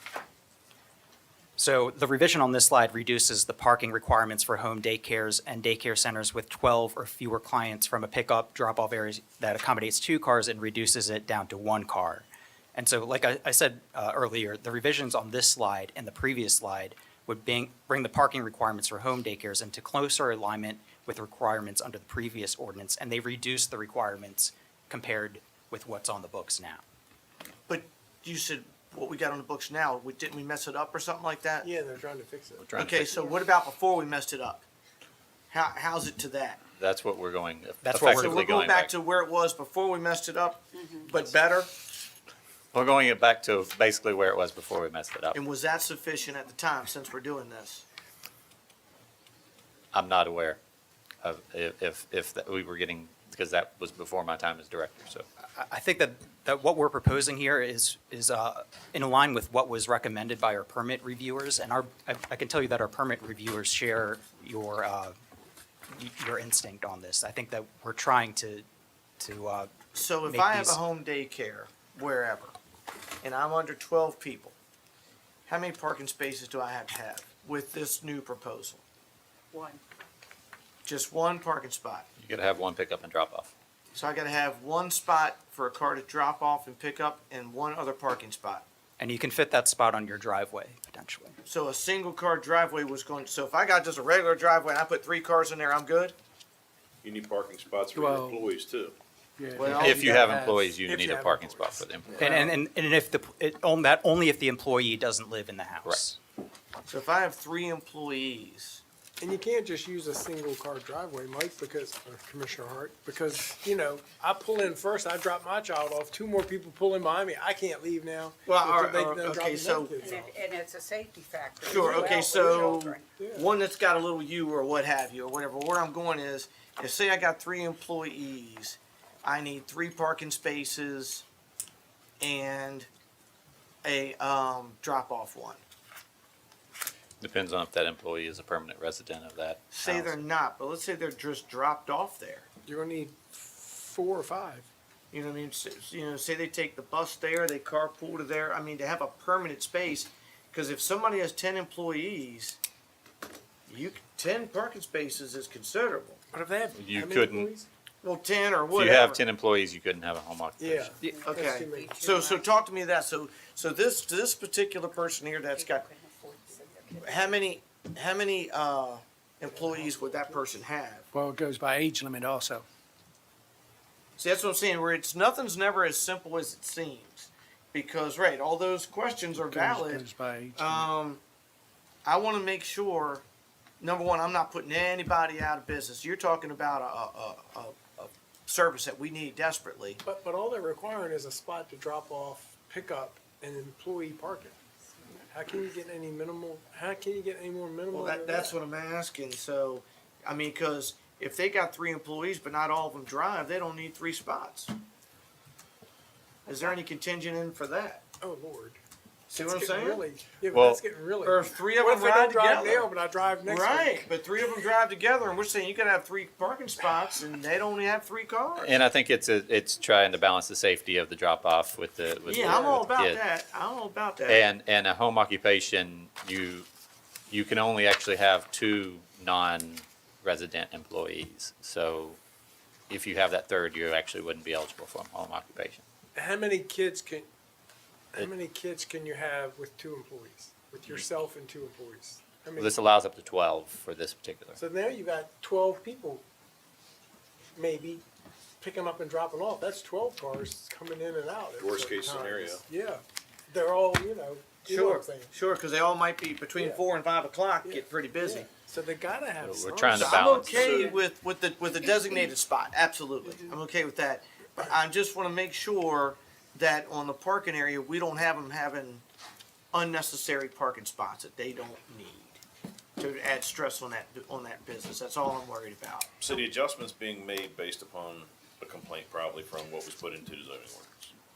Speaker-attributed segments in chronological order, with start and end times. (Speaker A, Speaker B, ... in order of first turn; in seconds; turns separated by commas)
Speaker A: 1.6-26.8, Speaker B: 27.7-31.7, Speaker C: 31.6-32.7, Speaker D: 32.6-33.1, Speaker B: 32.8-34.6, Speaker B: 35.5-36.6, Speaker D: 36.8-38.9, Speaker A: 37.8-38.4, Speaker B: 37.9-41.7, Speaker D: 42.7-45.4, Speaker B: 45.3-47.8, Speaker D: 49.9-50.6, Speaker D: 51.2-55.2, Speaker A: 55.5-65.1, Speaker A: 65.9-68.7, Speaker A: 69.2-69.7, Speaker B: 69.9-72.5, Speaker A: 70.2-70.8, Speaker B: 73.2-74.5, Speaker B: 75.5-78.8, Speaker E: 79.5-79.8, Speaker B: 80.8-82.0, Speaker D: 82.2-83.5, Speaker B: 83.9-88.6, Speaker A: 89.0-91.4, Speaker B: 91.5-96.1, Speaker F: 97.0-99.0, Speaker G: 97.9-98.4, Speaker G: 99.4-100.8, Speaker B: 99.5-100.2, Speaker D: 99.7-102.3, Speaker C: 100.8-102.5, Speaker A: 102.2-106.2, Speaker B: 106.9-108.8, Speaker C: 109.2-120.3, Speaker B: 118.5-120.0, Speaker E: 120.0-123.1, Speaker B: 121.6-131.2, Speaker C: 121.6-123.5, Speaker B: 132.2-132.9, Speaker B: 133.8-135.6, Speaker D: 137.2-140.2, Speaker B: 139.7-142.5, Speaker C: 142.7-144.7, Speaker B: 145.1-152.6, Speaker B: 153.7-156.2, Speaker C: 156.3-157.7, Speaker D: 156.7-157.5, Speaker B: 158.0-159.2, Speaker D: 158.7-160.9, Speaker C: 160.6-162.1, Speaker E: 161.0-162.5, Speaker B: 161.2-165.9, Speaker E: 165.5-167.4, Speaker B: 167.0-171.1, Speaker G: 171.1-172.7, Speaker B: 174.2-181.2, Speaker G: 179.5-180.9, Speaker B: 182.0-183.2, Speaker B: 183.8-190.0, Speaker C: 190.0-194.6, Speaker C: 195.2-198.5, Speaker B: 197.9-204.7, Speaker B: 206.5-208.0, Speaker C: 208.2-208.8, Speaker B: 209.3-210.0, Speaker C: 209.4-214.1, Speaker D: 210.5-210.8, Speaker B: 211.2-212.9, Speaker B: 213.4-218.7, Speaker D: 218.6-223.2, Speaker B: 222.3-224.5, Speaker C: 222.4-222.8, Speaker D: 224.3-226.7, Speaker D: 227.3-232.2, Speaker D: 232.9-235.8, Speaker C: 236.1-237.3, Speaker C: 238.1-242.8, Speaker D: 242.6-244.6, Speaker C: 244.6-246.2, Speaker C: 247.6-248.0, Speaker C: 248.6-255.3, Speaker F: 251.6-252.6, Speaker B: 254.7-258.5, Speaker C: 257.6-260.4, Speaker D: 259.4-260.8, Speaker B: 259.9-269.0, Speaker F: 260.4-261.0, Speaker B: 269.7-272.4, Speaker B: 273.0-276.1, Speaker F: 276.2-281.1